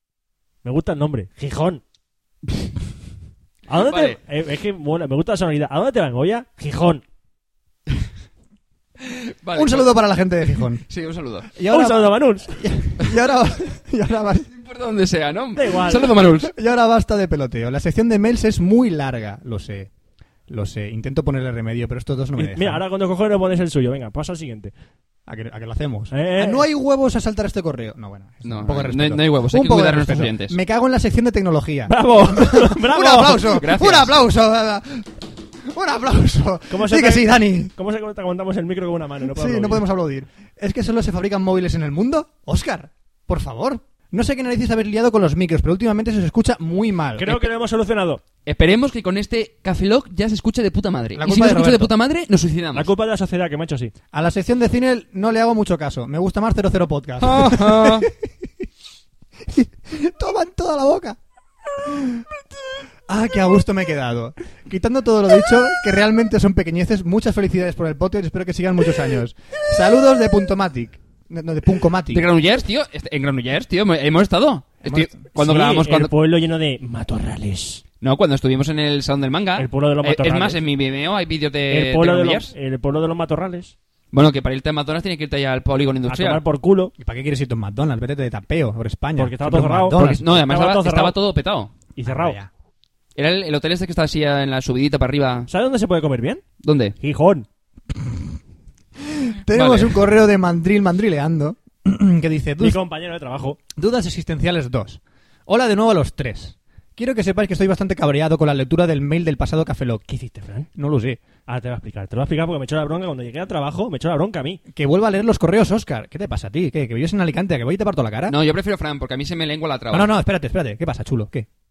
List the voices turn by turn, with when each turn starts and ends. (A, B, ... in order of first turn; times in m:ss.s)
0:00.6-0:01.8 A
0:03.7-0:07.0 A
0:03.8-0:04.2 B
0:09.0-0:09.9 B
0:09.5-0:10.8 C
0:10.5-0:11.5 B
0:11.5-0:14.5 C
0:11.7-0:12.6 A
0:14.5-0:16.5 B
0:15.6-0:16.2 A
0:16.2-0:19.9 C
0:20.5-0:22.8 C
0:22.4-0:24.7 A
0:25.3-0:37.7 C
0:26.1-0:26.7 A
0:28.4-0:30.6 B
0:31.9-0:33.6 A
0:33.5-0:34.1 B
0:36.7-0:39.8 A
0:39.3-0:47.4 C
0:47.2-0:48.2 A
0:48.5-0:52.9 B
0:51.2-0:51.9 C
0:52.7-0:53.9 A
0:54.1-0:58.3 C
0:57.2-0:58.1 B
0:59.4-1:01.2 C
1:01.8-1:02.3 C
1:03.1-1:12.3 C
1:12.1-1:16.1 B
1:14.8-1:15.2 C
1:15.3-1:17.8 A
1:18.0-1:22.5 B
1:19.6-1:20.6 A
1:21.7-1:23.7 A
1:24.1-1:26.4 B
1:26.1-1:26.9 A
1:27.0-1:30.2 C
1:29.2-1:31.2 A
1:29.9-1:31.7 B
1:32.0-1:32.4 A
1:32.1-1:32.5 C
1:33.2-1:35.5 B
1:35.5-1:36.4 A
1:36.6-1:37.0 B
1:37.0-1:37.5 A
1:37.9-1:38.2 C
1:39.0-1:42.8 C
1:39.5-1:40.0 B
1:42.6-1:43.6 A
1:43.7-1:50.0 C
1:50.1-1:50.7 A
1:50.8-1:51.2 C
1:51.5-1:54.6 A
1:54.7-1:58.4 C
1:58.3-2:00.1 B
1:59.9-2:01.5 C